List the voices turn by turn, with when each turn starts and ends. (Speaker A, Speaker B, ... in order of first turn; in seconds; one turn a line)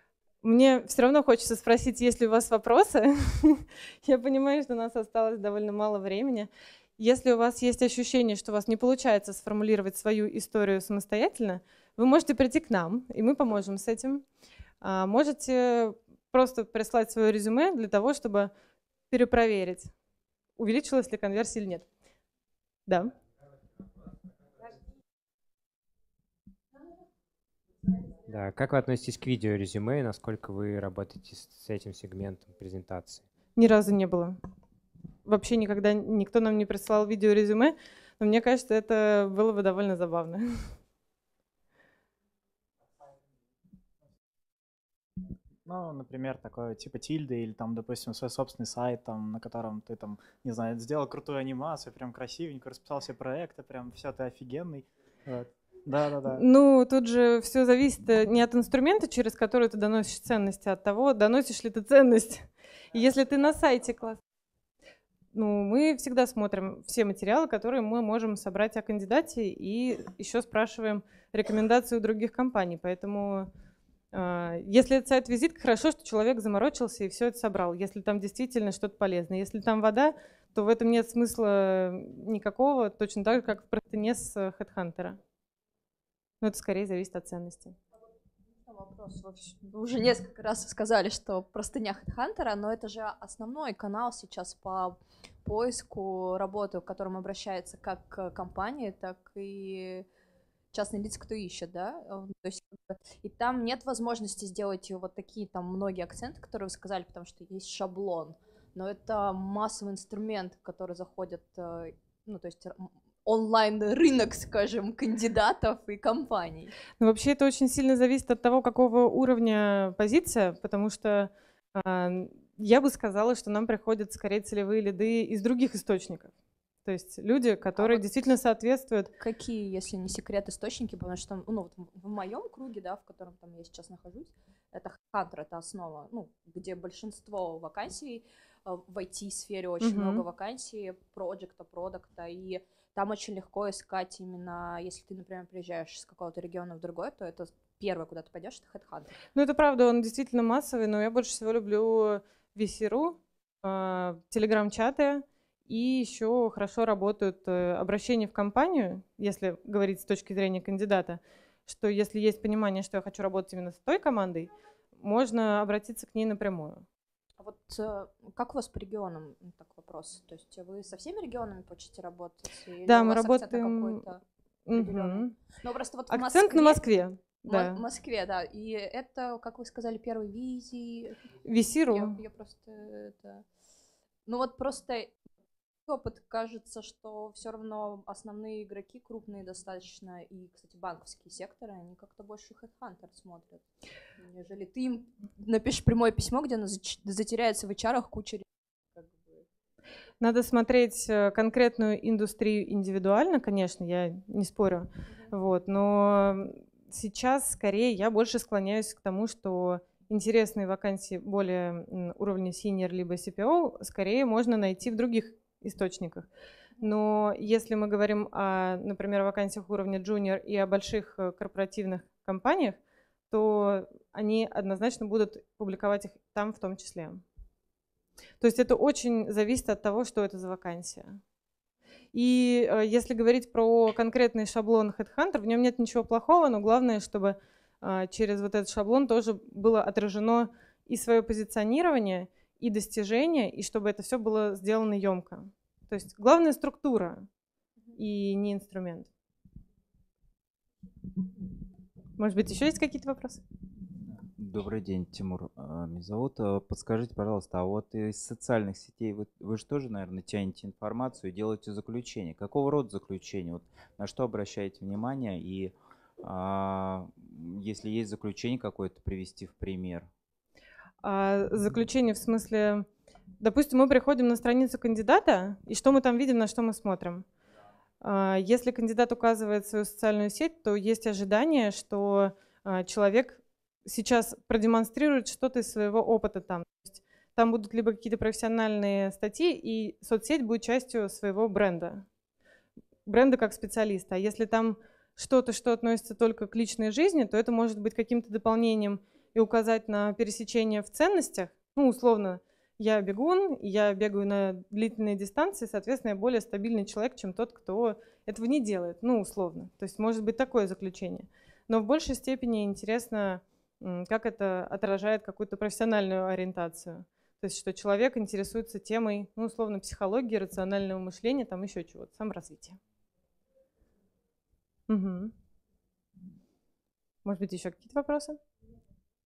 Speaker A: 0.4-14.2
Speaker A: 14.8-18.5
Speaker A: 19.1-19.9
Speaker A: 20.6-21.9
Speaker A: 22.9-23.1
Speaker B: 28.2-33.2
Speaker A: 33.6-34.4
Speaker A: 35.2-40.7
Speaker C: 45.6-56.4
Speaker A: 56.3-64.2
Speaker A: 65.3-73.5
Speaker A: 74.1-85.2
Speaker A: 86.4-87.8
Speaker D: 88.6-100.1
Speaker D: 100.7-116.7
Speaker A: 117.0-126.3
Speaker A: 126.8-129.1
Speaker D: 127.7-128.1
Speaker D: 129.2-149.2
Speaker A: 139.8-140.2
Speaker A: 149.3-166.8
Speaker D: 167.4-176.8
Speaker A: 172.8-174.0
Speaker A: 174.7-175.3
Speaker A: 176.1-177.8
Speaker D: 177.4-181.2
Speaker A: 181.4-182.2
Speaker D: 181.9-183.4
Speaker D: 184.2-185.2
Speaker D: 185.8-193.6
Speaker D: 194.2-199.4
Speaker A: 200.2-216.3
Speaker D: 205.1-205.3
Speaker A: 216.8-222.8
Speaker A: 223.3-227.2
Speaker A: 228.4-231.2
Speaker A: 232.1-247.3
Speaker A: 247.9-249.1
Speaker A: 252.2-253.4
Speaker E: 254.4-270.1
Speaker A: 271.0-272.9
Speaker A: 273.4-277.2
Speaker A: 278.0-292.1
Speaker A: 293.1-322.8
Speaker A: 324.9-325.3
Speaker A: 327.2-328.4